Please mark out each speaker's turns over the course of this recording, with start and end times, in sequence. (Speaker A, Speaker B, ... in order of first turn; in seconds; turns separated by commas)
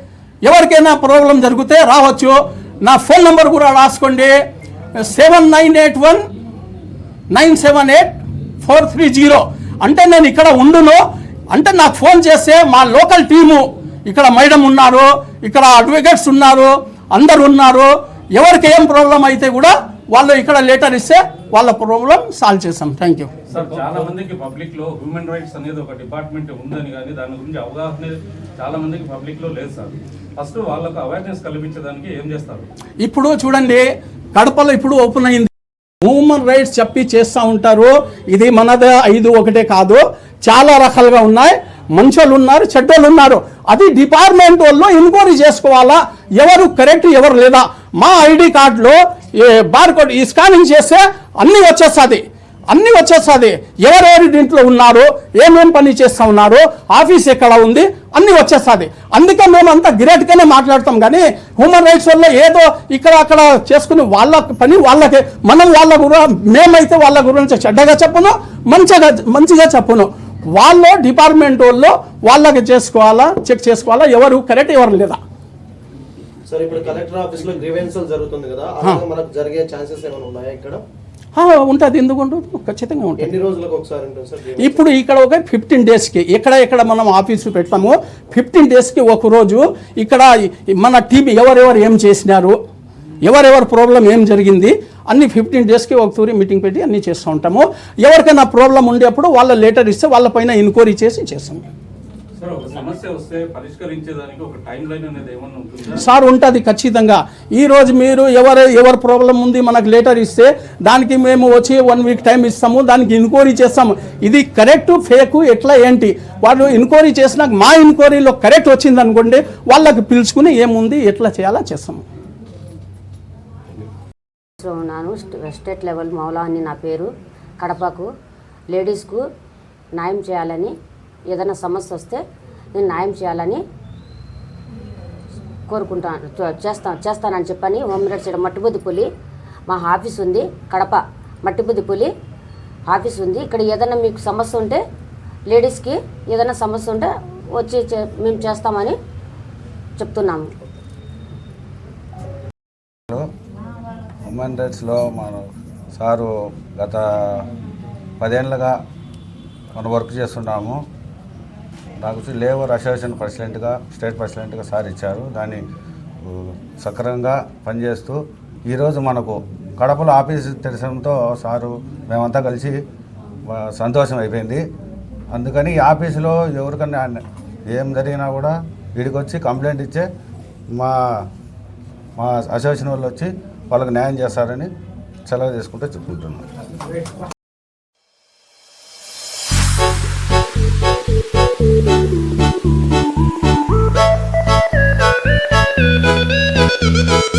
Speaker A: 0.4-4.4, Speaker A: 5.0-6.2, Speaker A: 7.3-8.1, Speaker A: 8.6-23.3, Speaker B: 23.5-32.7, Speaker A: 33.0-75.2, Speaker C: 76.5-80.8, Speaker A: 81.3-83.3, Speaker C: 83.2-84.8, Speaker A: 84.6-92.6, Speaker A: 93.2-101.6, Speaker B: 102.4-106.1, Speaker A: 105.9-122.0, Speaker D: 124.6-128.1, Speaker D: 128.7-129.2, Speaker D: 130.0-130.7, Speaker D: 131.3-132.2, Speaker D: 132.7-133.6, Speaker D: 135.7-139.1, Speaker D: 139.7-142.1, Speaker D: 142.9-144.8, Speaker D: 145.5-149.0, Speaker D: 150.0-150.5, Speaker E: 154.3-155.4, Speaker E: 155.9-157.4, Speaker E: 158.2-158.7, Speaker E: 159.8-160.8, Speaker E: 162.0-165.6, Speaker E: 166.2-172.8, Speaker E: 173.5-174.6, Speaker E: 175.3-180.1, Speaker E: 180.7-181.0, Speaker E: 182.2-184.7, Speaker E: 185.3-186.4